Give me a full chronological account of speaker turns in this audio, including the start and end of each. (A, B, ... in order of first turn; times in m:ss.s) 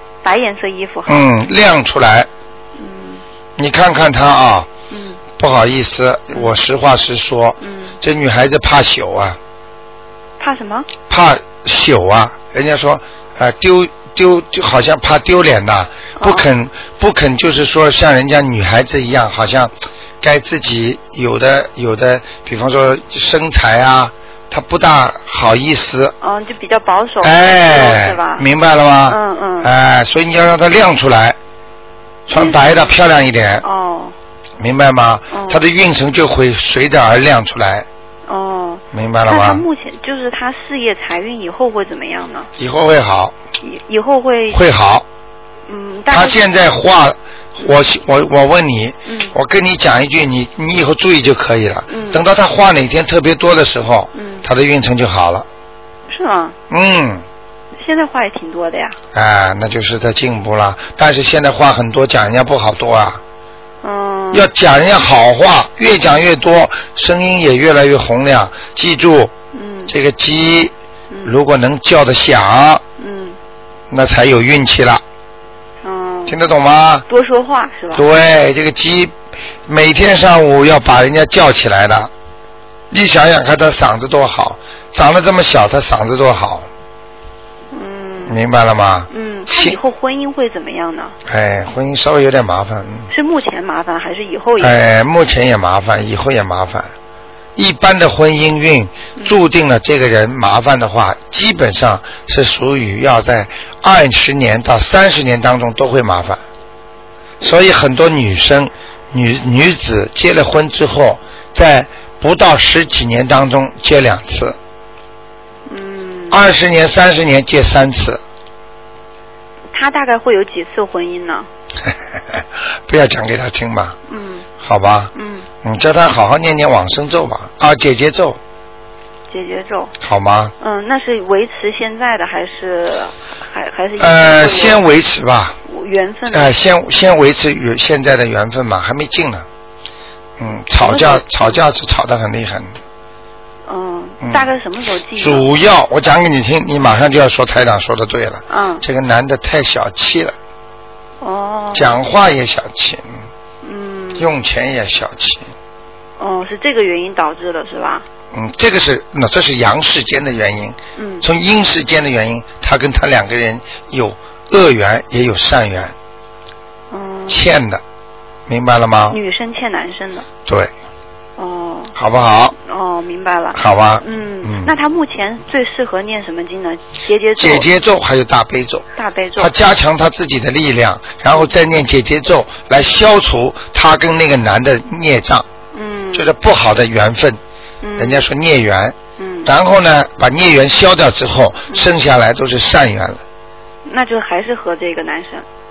0:00.2-0:01.3 A
0:01.1-0:02.3 B
0:02.8-0:03.2 A
0:03.6-0:04.7 B
0:04.9-0:05.2 A
0:05.4-0:09.4 B
0:06.3-0:06.6 A
0:07.6-0:08.0 A
0:10.4-0:10.9 A
0:11.1-0:26.1 B
0:16.2-0:16.5 A
0:26.2-0:28.4 A
0:27.2-0:31.4 B
0:29.1-0:29.7 A
0:32.3-0:33.6 B
0:32.3-0:33.0 A
0:33.6-0:34.1 A
0:34.6-0:37.9 B
0:35.3-0:35.6 A
0:38.3-0:42.5 A
0:38.9-0:39.6 B
0:42.6-0:43.3 B
0:43.6-0:44.6 A
0:44.5-0:45.0 B
0:45.7-0:46.4 A
0:46.1-0:55.5 B
0:49.0-0:49.3 A
0:51.9-0:52.2 A
0:54.1-0:54.5 A
0:56.1-0:56.6 A
0:56.7-0:57.2 B
0:57.8-0:59.0 A
0:59.1-1:03.2 B
1:03.8-1:04.5 A
1:04.3-1:09.3 B
1:09.5-1:09.9 A
1:09.9-1:10.7 B
1:11.2-1:12.8 B
1:13.0-1:13.4 A
1:13.9-1:15.0 B
1:15.8-1:16.4 A
1:16.3-1:17.0 B
1:17.1-1:18.0 A
1:17.9-1:19.1 B
1:19.6-1:22.1 B
1:22.9-1:26.7 B
1:27.7-1:28.4 A
1:28.2-1:29.8 B
1:29.1-1:31.1 A
1:31.2-1:33.1 B
1:33.1-1:34.8 A
1:34.6-1:36.9 B
1:37.6-1:46.4 B
1:47.4-1:54.6 B
1:55.7-1:56.4 A
1:56.3-1:58.2 B
1:59.7-2:01.5 A
2:01.8-2:04.0 B
2:04.1-2:04.5 A
2:04.6-2:05.1 B
2:05.1-2:05.5 A
2:05.6-2:08.4 B
2:09.3-2:09.9 A
2:10.0-2:10.5 B
2:10.6-2:14.8 A
2:14.0-2:15.6 B
2:15.6-2:16.6 A
2:16.3-2:19.5 B
2:20.4-2:22.7 B
2:20.8-2:21.6 A
2:23.7-2:25.4 A
2:24.2-2:24.5 B
2:25.2-2:30.3 B
2:28.5-2:28.8 A
2:31.2-2:32.0 A
2:31.7-2:33.2 B
2:33.6-2:34.3 A
2:34.2-2:35.5 B
2:36.2-2:38.0 A
2:38.3-2:45.9 B
2:41.0-2:41.3 A
2:46.9-2:47.4 A
2:47.3-2:47.8 B
2:48.5-2:49.2 B
2:49.1-2:50.3 A
2:50.5-2:50.7 B
2:51.4-2:51.9 A
2:52.0-2:52.6 B
2:52.6-2:57.7 A
2:53.5-2:54.7 B
2:57.4-2:58.8 B
2:59.0-2:59.5 A
2:59.4-3:05.4 B
3:05.7-3:06.3 A
3:06.1-3:07.4 B
3:07.8-3:08.2 A
3:08.0-3:13.2 B
3:09.2-3:09.5 A
3:13.8-3:15.4 A